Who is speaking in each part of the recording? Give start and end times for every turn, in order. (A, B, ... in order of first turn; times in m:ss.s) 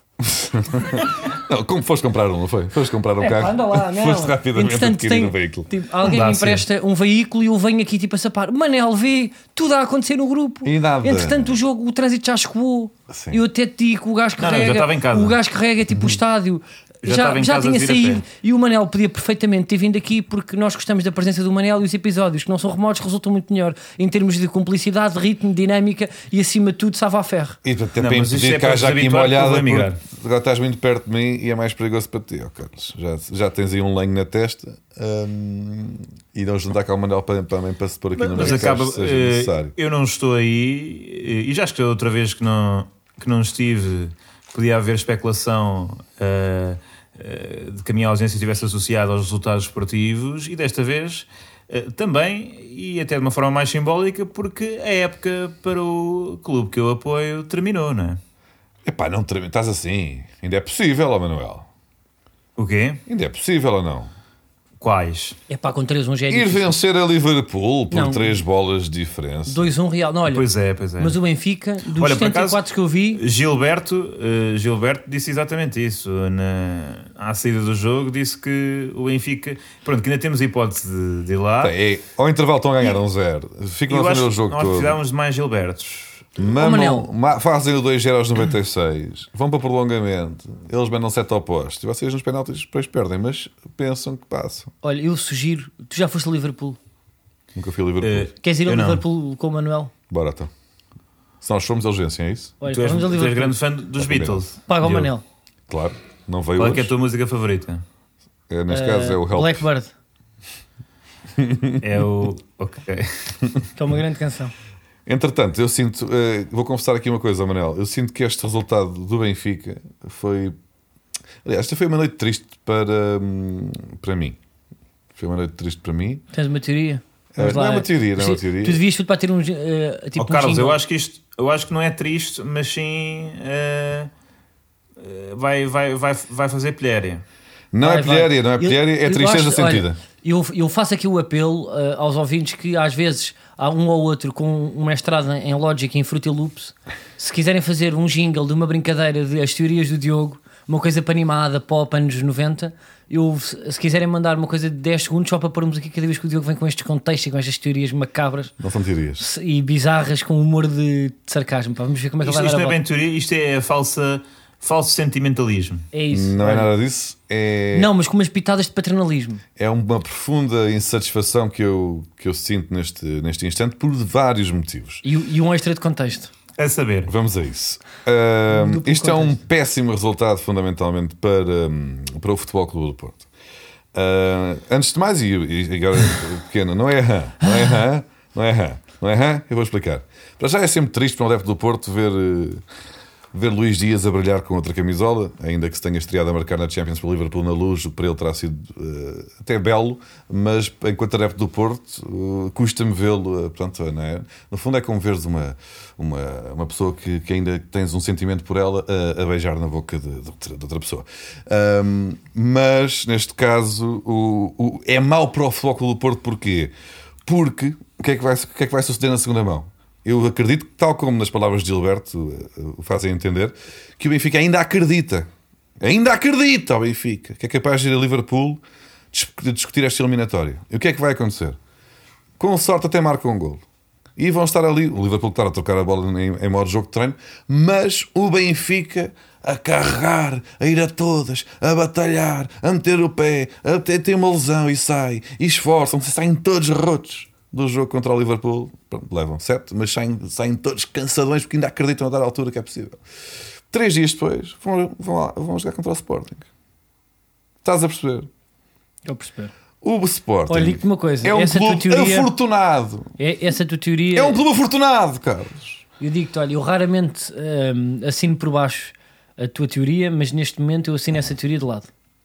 0:00.2-0:05.7 A
0:03.2-0:27.6 B
0:06.0-0:06.6 C
0:10.6-0:11.6 A
0:13.1-0:13.4 A
0:14.4-0:15.4 C
0:17.0-0:18.2 C
0:27.6-0:39.7 A
0:28.0-0:30.0 C
0:38.2-0:58.2 C
0:58.8-1:01.7 A
1:02.6-1:03.0 C
1:03.1-1:04.1 A
1:04.8-1:05.4 C
1:05.5-1:06.8 B
1:06.3-1:09.7 A
1:07.9-1:08.4 B
1:09.5-1:10.5 B
1:10.3-1:11.2 C
1:11.0-1:13.2 B
1:11.9-1:12.6 C
1:13.2-1:21.8 C
1:21.6-1:25.0 A
1:23.9-1:26.3 C
1:26.4-1:34.7 A
1:26.4-1:27.1 B
1:34.8-1:36.8 B
1:37.6-1:38.3 A
1:38.0-1:39.0 C
1:38.4-1:39.9 B
1:40.1-1:40.5 A
1:41.4-1:42.6 A
1:42.6-1:43.6 B
1:42.7-1:45.1 C
1:44.0-1:44.4 A
1:44.7-1:45.2 B
1:45.7-1:46.9 A
1:46.6-1:47.8 C
1:48.5-1:49.7 A
1:48.7-1:49.9 B
1:51.4-1:51.8 A
1:51.8-1:53.5 C
1:53.8-1:54.5 B
1:55.1-2:00.6 A
2:01.4-2:04.4 A
2:05.2-2:06.2 A
2:06.3-2:10.8 B
2:07.4-2:08.8 A
2:10.2-2:14.1 C
2:15.0-2:17.2 C
2:17.7-2:20.0 A
2:17.8-2:38.5 B
2:38.6-2:39.2 A
2:39.2-2:42.8 B
2:42.2-2:45.9 C
2:45.9-2:46.7 B
2:46.1-2:47.9 A
2:47.7-2:49.4 B
2:49.6-2:55.0 A
2:55.0-2:56.3 B
2:56.6-2:57.1 C
2:57.1-3:03.3 A
2:58.5-2:59.4 B
3:03.9-3:12.6 A
3:13.3-3:36.7 A
3:37.3-3:45.3 A
3:45.8-3:48.6 A
3:49.1-3:51.6 A
3:52.4-3:53.6 A
3:54.2-4:13.0 A
4:13.7-4:16.5 A
4:17.6-4:18.3 A
4:19.1-4:19.5 B
4:19.8-4:23.1 A
4:20.5-4:22.3 B
4:23.2-4:24.4 B
4:24.1-4:25.8 A
4:26.0-4:31.9 B